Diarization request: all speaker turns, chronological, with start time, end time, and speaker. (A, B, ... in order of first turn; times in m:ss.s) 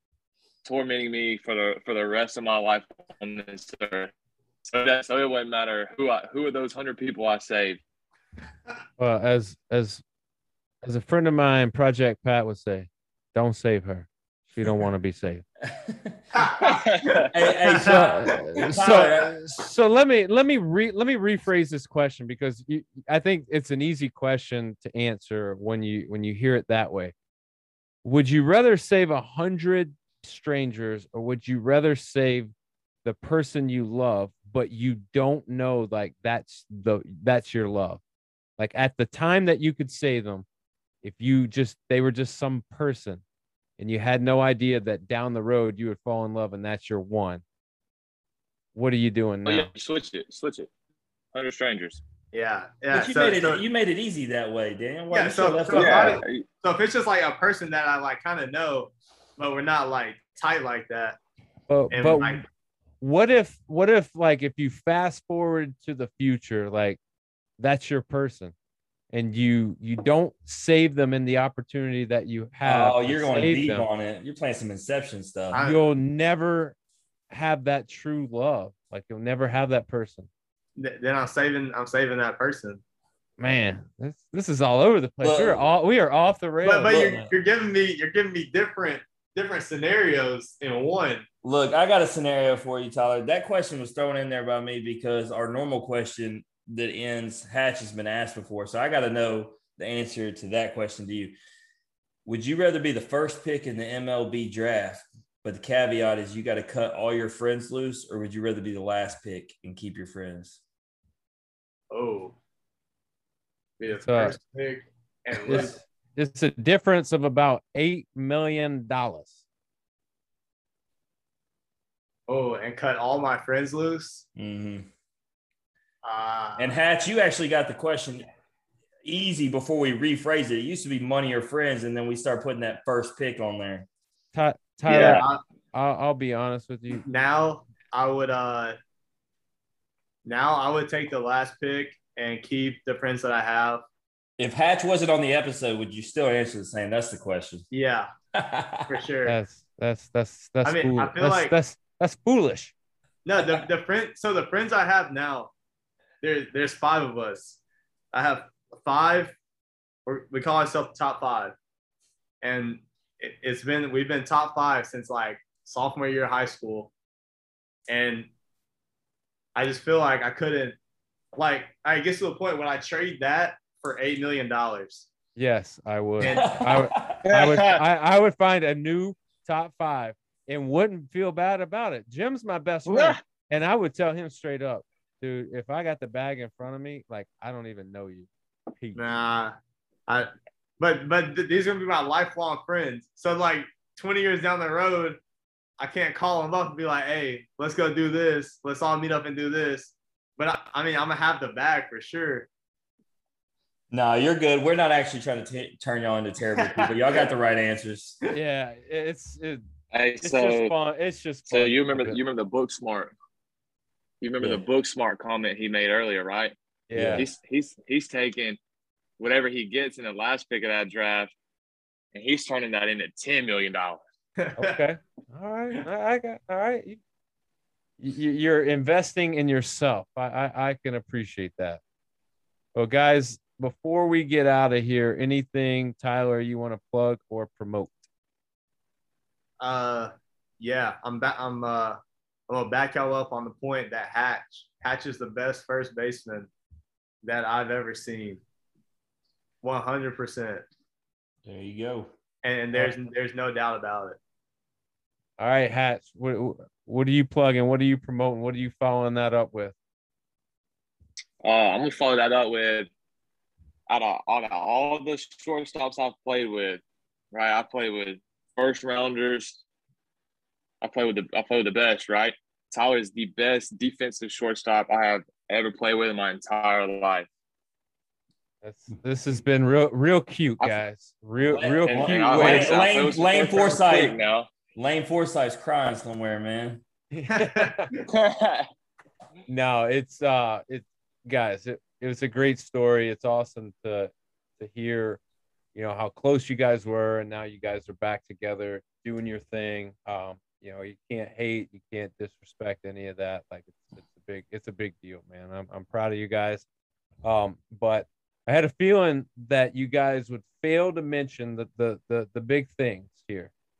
0:00.6-0:04.1 A
0:04.6-0:07.8 A
0:09.0-0:10.0 B
0:10.8-0:15.4 B
0:15.7-0:16.2 C
0:16.4-0:18.0 D
0:16.6-0:17.3 A
0:17.3-0:19.4 C
0:17.8-0:27.1 B
0:28.0-0:32.5 B
0:33.0-0:38.0 B
0:38.6-0:40.5 B
0:41.0-0:43.2 B
0:43.8-0:47.4 B
0:48.8-0:49.7 B
0:49.5-0:50.7 A
0:51.3-0:52.0 A
0:52.3-0:53.6 D
0:52.9-0:56.2 C
0:55.1-1:01.2 D
0:55.7-0:56.4 A
1:01.7-1:02.5 B
1:01.9-1:02.4 D
1:03.0-1:07.0 B
1:07.6-1:08.5 B
1:09.1-1:13.9 B
1:12.6-1:15.6 C
1:15.5-1:15.9 D
1:15.6-1:16.8 B
1:17.3-1:20.3 B
1:20.8-1:22.8 D
1:23.4-1:27.3 B
1:25.2-1:25.7 C
1:26.6-1:31.3 D
1:31.4-1:41.4 C
1:42.3-1:50.6 C
1:51.9-1:52.4 D
1:53.8-1:55.8 D
1:53.9-1:54.4 B
1:55.5-1:59.4 B
2:02.3-2:04.2 D
2:04.4-2:04.9 C
2:06.0-2:06.8 D
2:06.6-2:08.3 C
2:09.0-2:13.9 C
2:14.3-2:17.0 B
2:14.9-2:15.4 D
2:14.9-2:15.2 A
2:17.1-2:18.8 D
2:20.2-2:23.8 D
2:24.4-2:27.7 C
2:27.7-2:28.1 D
2:28.4-2:29.0 C
2:28.9-2:29.4 D
2:29.3-2:32.7 B
2:30.6-2:31.6 D
2:33.2-2:35.5 D
2:36.2-2:37.6 D
2:38.1-2:39.4 D
2:40.1-2:41.6 D
2:42.4-2:46.9 D
2:47.9-2:48.3 D
2:49.6-2:50.8 D
2:51.3-2:55.1 D
2:55.4-3:09.1 B
2:56.2-2:56.6 D
2:56.2-2:57.2 C
2:57.3-2:57.8 A
3:02.9-3:03.2 A
3:09.0-3:09.6 D
3:10.8-3:15.2 D
3:15.8-3:22.5 D
3:23.9-3:28.2 C
3:26.6-3:26.9 D
3:28.3-3:29.6 B
3:29.9-3:30.7 A
3:30.2-3:32.2 B
3:31.5-3:33.1 A
3:34.2-3:36.5 A
3:36.9-3:37.3 B
3:36.9-3:37.2 C
3:37.2-3:38.6 A
3:39.2-3:41.3 A
3:42.1-3:44.0 A
3:44.4-3:44.8 D
3:44.6-3:47.0 B
3:48.0-3:51.8 B
3:52.8-3:58.1 B
3:59.6-4:06.5 D
4:07.2-4:08.4 D
4:09.6-4:10.6 D
4:11.4-4:12.1 C
4:12.4-4:14.2 D
4:12.7-4:13.0 B
4:15.4-4:19.8 B
4:21.4-4:22.9 A
4:23.9-4:26.8 A
4:27.3-4:29.6 A
4:30.8-4:37.3 A
4:38.6-4:42.9 B
4:41.5-4:44.2 C
4:41.9-4:44.5 A
4:44.8-4:46.8 C
4:47.1-4:47.9 B
4:47.3-4:48.0 D
4:48.1-4:48.7 A
4:49.5-4:55.2 B
4:55.7-5:06.7 B
5:07.2-5:13.5 B